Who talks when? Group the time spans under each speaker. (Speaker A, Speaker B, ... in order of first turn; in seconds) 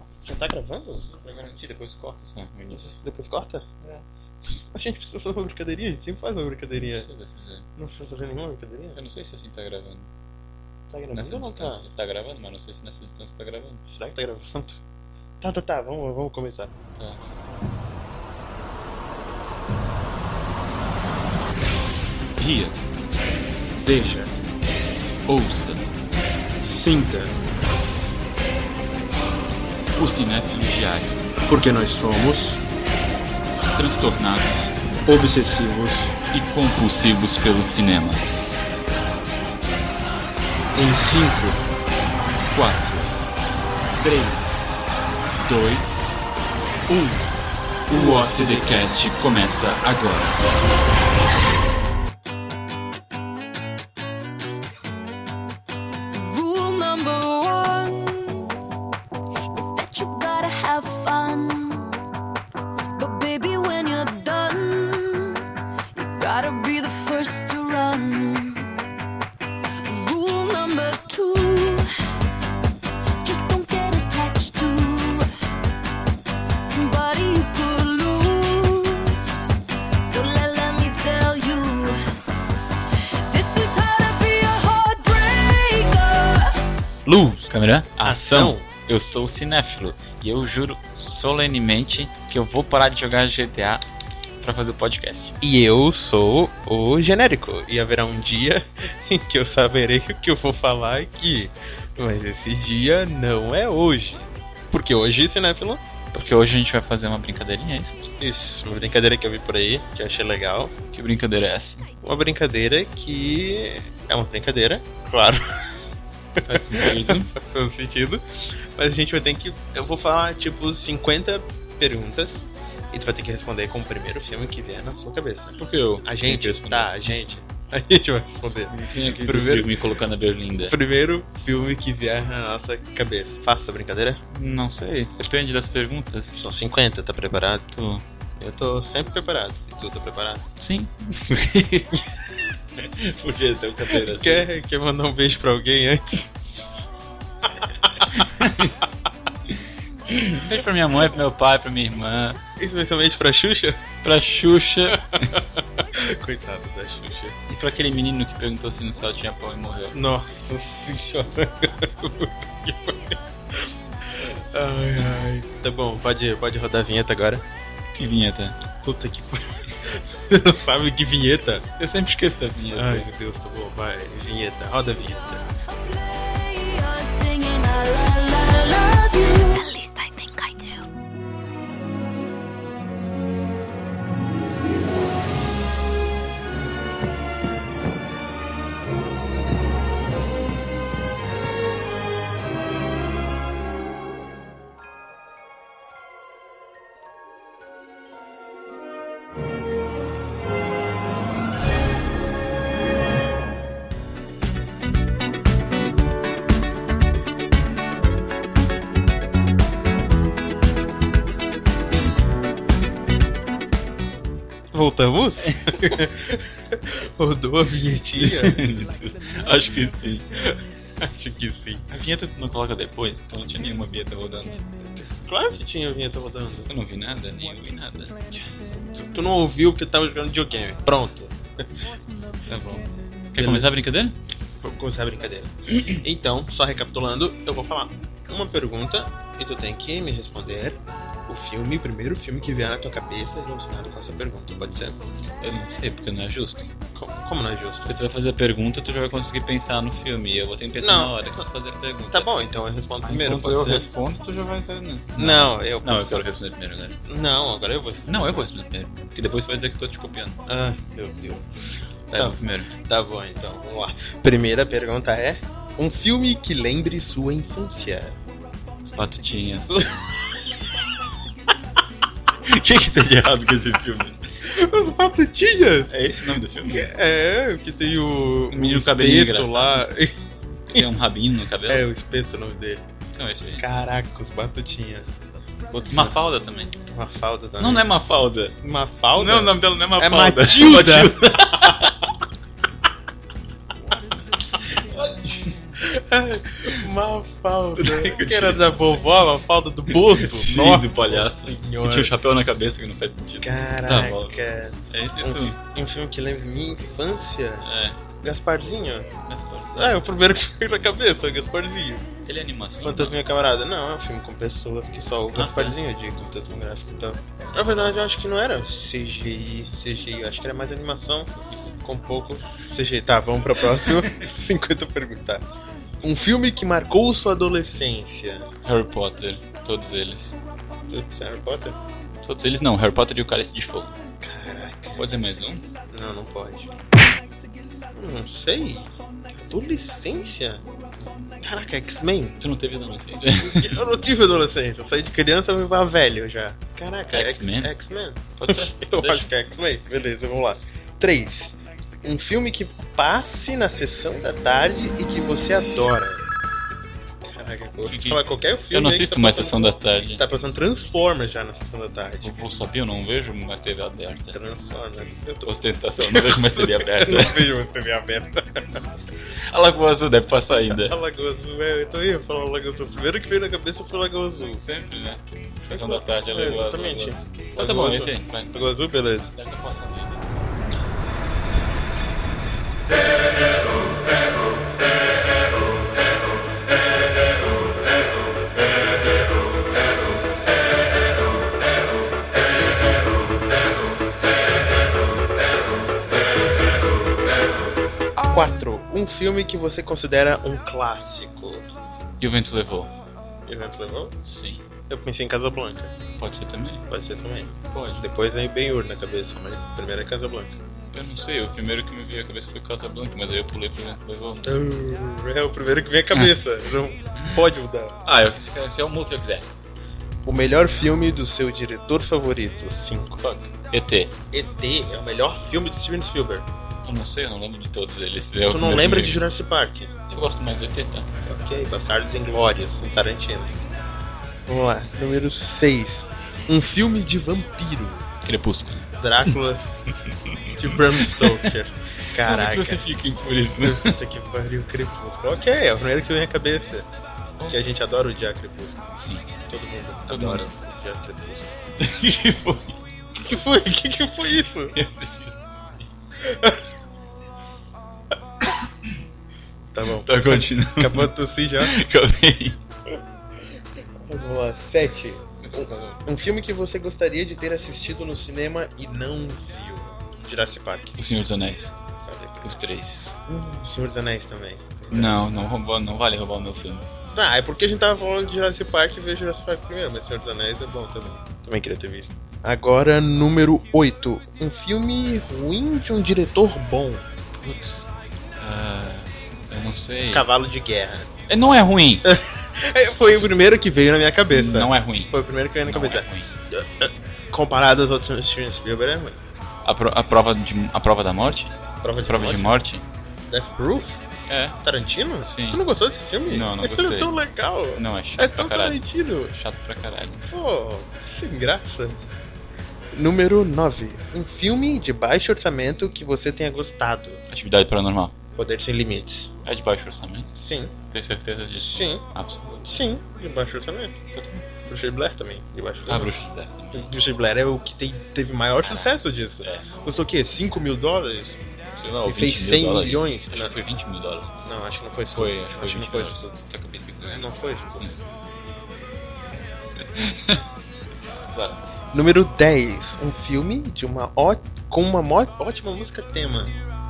Speaker A: 0.2-1.1, 2.7-3.7, 4.5-7.1, 7.8-9.0, 10.9-11.8, 13.9-14.8, 15.4-16.7, 23.8-24.3, 26.6-27.4, 31.5-32.6, 35.1-36.1, 40.7-41.6, 46.9-47.2, 47.9-48.7, 87.0-87.5, 88.0-88.7, 95.4-105.8, 108.2-110.7, 112.0-115.4, 116.4-130.0, 130.6-134.2, 136.3-137.7, 138.4-140.5, 143.9-146.3, 147.4-148.3, 152.6-153.8, 154.9-157.3, 159.9-167.4, 168.8-171.7, 172.7-175.4, 214.7-218.6, 220.3-221.9, 225.3-226.7, 228.7-231.6, 233.4-233.7, 234.6-245.0, 246.9-247.9, 250.8-251.5, 252.1-253.8, 255.2-256.3, 257.1-258.4, 260.5-268.2, 269.7-270.0, 274.4-276.0, 276.6-280.1, 281.7-282.8, 283.6-285.2, 285.7-286.2, 286.9-287.9, 288.6-291.9, 295.8-302.1, 303.4-307.6, 308.2-309.1, 309.7-312.1, 312.8-325.4, 326.0-328.5, 330.9-331.8, 334.2-335.1, 335.9-336.7, 337.9-340.6, 341.4-342.4, 343.3-356.2, 357.3-362.3, 364.3-368.8, 370.7-374.6, 375.7-379.3, 398.3-401.7, 403.4-404.2, 404.9-405.9, 406.9-410.6, 414.4-418.0, 420.2-423.2, 424.3-426.4, 428.5-429.9, 431.2-433.6, 434.5-438.1, 439.0-439.7, 440.5-442.9, 443.5-446.9, 447.5-448.9, 449.5-451.6, 453.1-454.8, 456.2-456.6, 459.7-461.8, 464.0-470.9, 472.0-472.6, 473.2-475.2, 477.1-487.1, 490.1-491.1, 492.0-499.2, 501.8-502.6, 503.3-504.0, 504.6-509.3, 510.3-512.0, 512.9-517.2, 518.3-519.3, 520.3-520.7, 521.6-522.0, 522.6-524.0, 524.6-526.2, 526.7-531.4, 532.0-533.6, 534.4-536.3, 537.0-537.9, 541.9-546.5
Speaker B: 1.1-3.0, 6.8-7.7, 8.9-10.1, 11.1-13.8, 16.9-17.2, 22.4-22.8, 25.2-25.9, 29.9-31.2, 33.7-34.7, 36.2-38.2, 42.5-43.2, 44.0-44.4, 45.4-45.9, 47.9-50.4, 87.5-93.8, 94.4-95.3, 106.1-108.1, 110.9-111.9, 116.5-117.3, 125.6-127.3, 128.7-130.8, 134.3-136.4, 137.7-138.0, 140.6-142.0, 142.8-144.5, 148.1-148.8, 149.5-152.4, 154.0-155.3, 157.4-159.9, 167.9-168.6, 171.8-173.1, 218.1-220.3, 221.9-225.1, 226.7-228.5, 232.5-234.2, 245.4-246.7, 247.8-252.3, 253.0-257.0, 258.1-260.4, 262.1-262.7, 268.9-270.0, 272.4-274.2, 275.9-276.9, 278.5-279.9, 280.7-281.9, 283.1-283.6, 285.9-286.7, 287.6-288.6, 289.1-292.1, 294.6-295.5, 297.8-299.0, 299.9-305.6, 307.6-308.0, 309.3-309.9, 312.2-313.2, 315.3-315.8, 321.3-321.8, 323.7-324.2, 328.6-330.4, 332.2-333.9, 334.9-335.6, 342.4-343.8, 347.1-347.7, 348.4-349.3, 357.8-360.2, 362.2-364.4, 365.4-367.5, 369.5-371.0, 374.5-378.8, 379.3-380.2, 402.2-402.9, 404.2-404.6, 406.2-406.8, 407.7-408.0, 410.9-414.6, 418.0-419.5, 423.2-424.1, 426.8-429.2, 430.1-431.1, 438.2-439.4, 439.9-441.5, 442.1-444.0, 449.0-449.2, 450.1-450.5, 451.8-452.8, 454.7-455.9, 458.4-458.9, 459.8-462.6, 465.4-466.0, 471.0-471.7, 472.4-473.1, 474.9-476.9, 487.4-487.9, 488.4-490.3, 491.3-492.1, 492.9-493.3, 494.3-496.3, 499.6-502.8, 504.3-504.6, 505.2-505.6, 506.2-507.2, 507.7-510.3, 517.3-518.1, 519.4-520.3, 520.9-522.7, 524.1-524.4, 525.9-526.9, 528.6-529.7, 531.8-534.4, 535.1-537.3, 539.8-540.4, 541.3-541.6
Speaker C: 56.1-58.5, 59.5-61.9, 63.0-68.7, 69.8-71.9, 73.2-75.3, 76.6-79.5, 80.0-82.0, 83.0-86.5, 175.7-180.9